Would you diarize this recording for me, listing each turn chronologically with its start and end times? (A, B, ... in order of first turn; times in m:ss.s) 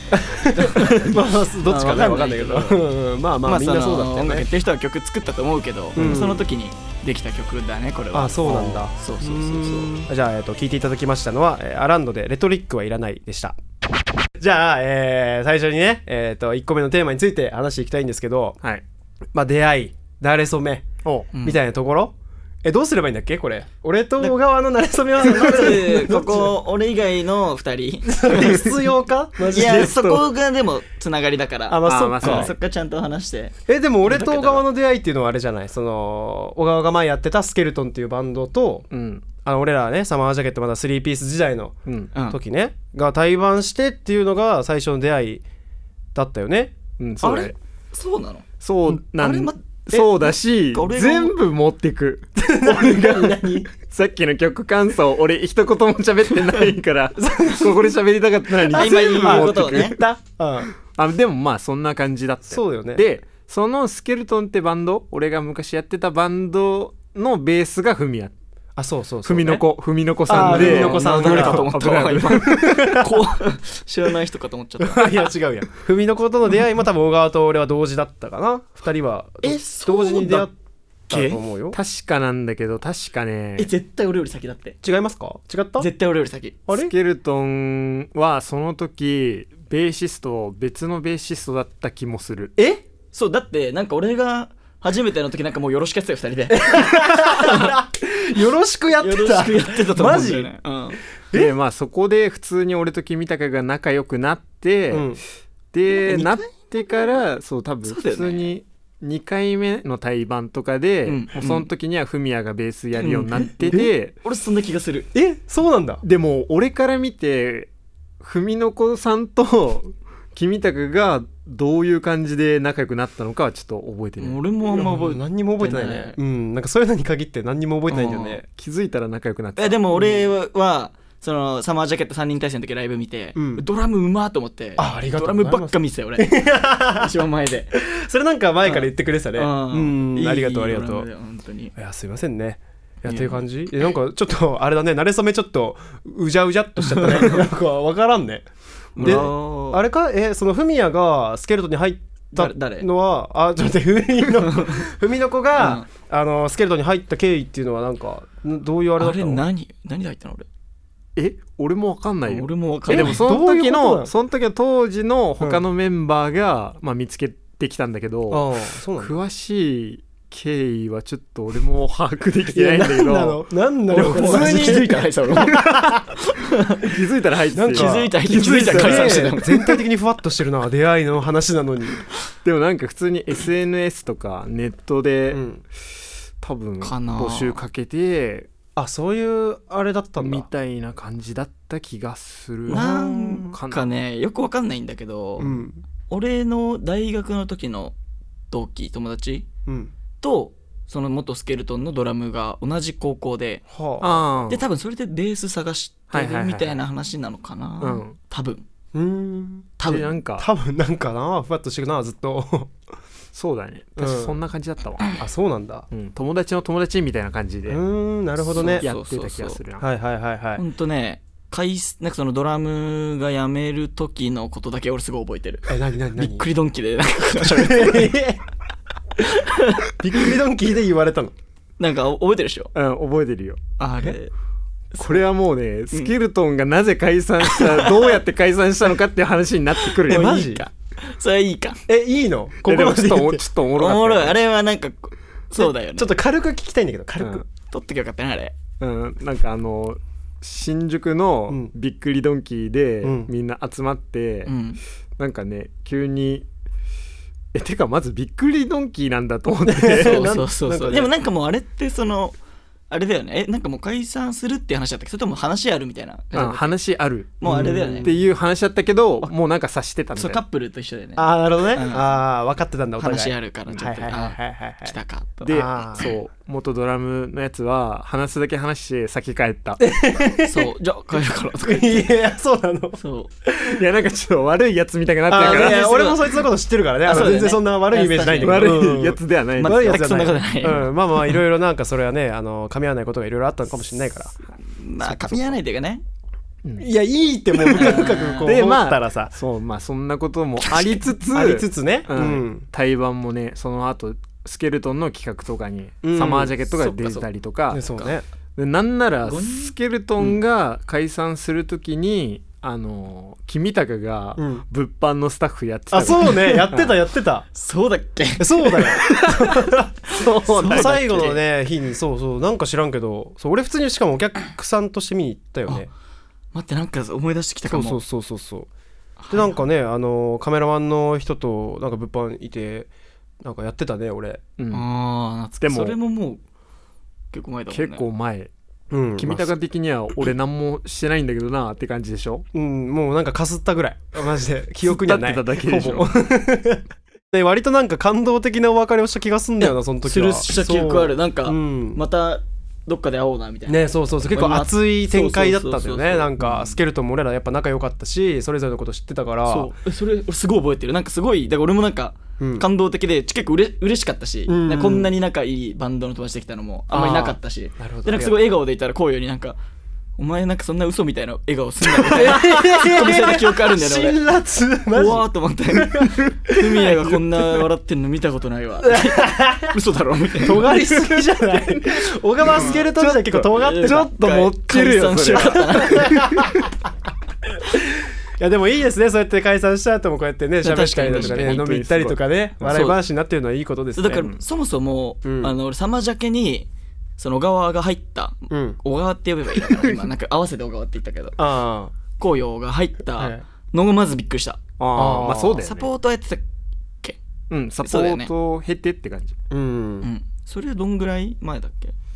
0:00.1-0:04.5 A
0:00.5-0:02.8 B
0:03.5-0:10.1 B
0:06.0-0:06.2 C
0:06.0-0:06.4 A
0:08.1-0:13.6 A
0:08.5-0:08.8 C
0:14.4-0:18.6 A
0:19.3-0:20.9 A
0:21.3-0:21.6 B
0:21.4-0:26.5 A
0:25.2-0:28.7 B
0:28.1-0:30.0 A
0:29.5-0:33.6 B
0:29.5-0:30.3 C
0:31.7-0:32.5 A
0:31.9-0:32.5 C
0:33.7-0:38.9 A
0:34.1-0:34.6 B
0:38.9-0:39.3 C
0:39.4-0:45.4 A
0:41.9-0:42.1 C
0:42.1-0:42.4 B
0:46.2-0:46.8 A
0:47.0-0:47.6 C
0:47.2-0:48.5 B
0:48.6-1:00.0 C
0:49.0-0:49.6 B
0:50.2-0:51.3 B
0:52.4-0:53.7 A
0:57.2-0:57.9 A
0:58.5-1:00.7 A
0:58.7-1:00.0 B
1:00.9-1:08.3 C
1:02.5-1:03.0 A
1:08.8-1:09.7 A
1:09.2-1:13.0 C
1:10.3-1:11.7 A
1:10.3-1:15.3 B
1:12.5-1:13.1 A
1:14.8-1:20.5 A
1:19.4-1:20.5 B
1:21.1-1:21.8 A
1:21.1-1:21.4 B
1:21.7-1:23.7 C
1:23.6-1:24.8 B
1:24.8-1:25.9 A
1:25.8-1:26.6 B
1:26.7-1:26.9 A
1:26.7-1:32.5 C
1:32.6-1:32.8 A
1:33.1-1:37.7 B
1:36.5-1:40.5 A
1:39.0-1:41.0 B
1:41.3-1:45.2 C
1:44.9-1:45.2 A
1:45.7-1:54.2 C
1:45.9-1:46.5 B
1:47.9-1:48.5 B
1:51.1-1:51.7 B
1:53.0-1:55.1 B
1:55.1-1:56.0 A
1:56.0-1:57.7 C
1:58.2-2:04.4 C
2:04.2-2:06.2 B
2:04.7-2:08.4 A
2:07.9-2:08.4 B
2:08.5-2:10.1 C
2:09.6-2:16.4 B
2:13.4-2:13.6 A
2:14.8-2:17.2 A
2:16.9-2:17.7 B
2:17.7-2:21.1 A
2:18.6-2:21.7 B
2:21.8-2:39.4 A
2:23.1-2:23.4 B
2:26.8-2:27.4 B
2:29.0-2:29.8 B
2:32.3-2:32.9 B
2:35.5-2:35.9 B
2:39.0-2:40.5 B
2:41.2-2:53.4 C
2:42.3-2:43.2 B
2:42.9-2:44.1 A
2:48.3-2:49.2 A
2:52.5-2:56.0 A
2:53.9-2:56.9 B
2:54.0-2:54.9 C
2:56.8-2:59.4 C
2:57.6-3:02.0 A
2:57.7-2:59.7 B
3:02.4-3:05.6 C
3:05.3-3:05.6 A
3:06.4-3:08.5 C
3:06.8-3:07.6 B
3:08.8-3:10.5 A
3:10.2-3:12.9 C
3:12.7-3:13.5 A
3:12.7-3:18.0 B
3:13.4-3:13.9 C
3:15.4-3:15.8 A
3:18.5-3:19.5 B
3:19.7-3:19.9 A
3:20.2-3:23.6 B
3:23.7-3:24.3 A
3:24.0-3:24.6 C
3:24.5-3:28.6 B
3:26.1-3:26.8 C
3:27.8-3:28.2 C
3:28.9-3:29.8 A
3:29.8-3:30.1 B
3:29.8-3:30.5 C
3:30.4-3:32.8 A
3:33.3-3:35.2 C
3:34.0-3:34.4 A
3:35.2-3:35.9 A
3:35.9-3:37.8 C
3:37.7-3:38.9 A
3:38.5-3:39.9 C
3:38.6-3:39.6 B
3:39.8-3:40.6 A
3:40.6-3:48.2 B
3:45.7-3:46.5 A
3:47.4-3:48.4 A
3:49.2-3:49.8 B
3:50.0-3:51.3 A
3:51.8-3:52.7 B
3:52.7-3:53.6 C
3:53.8-3:54.3 B
3:54.9-3:55.2 B
3:55.0-4:00.4 C
3:57.4-3:58.2 B
3:59.9-4:01.8 B
4:00.1-4:00.7 A
4:01.9-4:03.4 A
4:02.6-4:04.4 C
4:03.8-4:06.1 B
4:05.6-4:07.4 A
4:07.7-4:08.6 B
4:08.8-4:14.5 C
4:13.0-4:13.3 A
4:14.5-4:14.8 B
4:15.2-4:16.5 C
4:17.5-4:20.4 C
4:19.6-4:21.1 A
4:20.0-4:22.4 B
4:22.9-4:26.8 B
4:26.3-4:30.4 C
4:27.4-4:28.1 B
4:27.4-4:28.1 A
4:30.2-4:32.1 B
4:31.2-4:34.9 A
4:33.0-4:36.1 B
4:35.4-4:39.8 C
4:35.5-4:36.1 A
4:39.8-4:40.7 A
4:40.4-4:42.1 B
4:41.6-4:43.8 A
4:43.0-4:43.3 B
4:43.7-4:45.8 C
4:45.3-4:54.4 A
4:45.4-4:46.4 B
4:47.0-4:48.9 B
4:48.4-4:50.0 C
4:49.6-4:51.4 B
4:54.6-4:56.0 B
4:55.0-4:55.6 A
4:56.8-4:59.3 A
4:57.6-5:07.9 C
4:57.7-4:58.5 B
5:01.3-5:02.7 A
5:06.0-5:06.5 A
5:06.8-5:07.3 B
5:07.7-5:08.2 A
5:08.6-5:16.9 C
5:09.3-5:10.3 B
5:14.4-5:14.6 A
5:15.9-5:17.5 A
5:17.6-5:19.3 B
5:18.4-5:25.9 A
5:19.1-5:19.4 C
5:20.1-5:21.4 B
5:20.2-5:21.4 C
5:26.5-5:28.0 B
5:27.7-5:28.7 A
5:29.2-5:29.6 B
5:29.3-5:32.9 A
5:33.4-5:34.4 A
5:34.6-5:34.8 C
5:34.7-5:36.4 B
5:35.6-5:36.0 C
5:37.3-5:38.1 B
5:37.7-5:38.5 C
5:38.9-5:39.5 A
5:39.2-5:42.4 C
5:42.5-5:52.0 A
5:44.8-5:46.1 C
5:49.6-5:56.7 B
5:53.7-5:59.8 A
5:59.5-6:09.6 B
6:02.4-6:02.7 A
6:04.5-6:05.1 A
6:06.9-6:08.4 A
6:10.2-6:14.2 B
6:12.0-6:16.9 A
6:14.9-6:20.7 B
6:18.8-6:19.8 A
6:20.4-6:24.1 A
6:20.7-6:26.7 C
6:23.6-6:26.2 B
6:25.3-6:26.7 A
6:27.5-6:34.3 A
6:30.6-6:31.6 B
6:31.0-6:32.8 C
6:32.7-6:33.0 B
6:34.0-6:41.4 B
6:34.1-6:34.4 C
6:35.2-6:35.6 A
6:38.5-6:38.8 A
6:41.4-6:41.9 A
6:42.2-6:44.6 B
6:43.2-6:43.4 A
6:44.8-6:45.9 C
6:45.0-6:45.6 A
6:45.6-6:46.4 B
6:47.5-6:49.4 C
6:47.8-6:48.3 B
6:49.5-6:50.1 A
6:50.0-6:51.9 B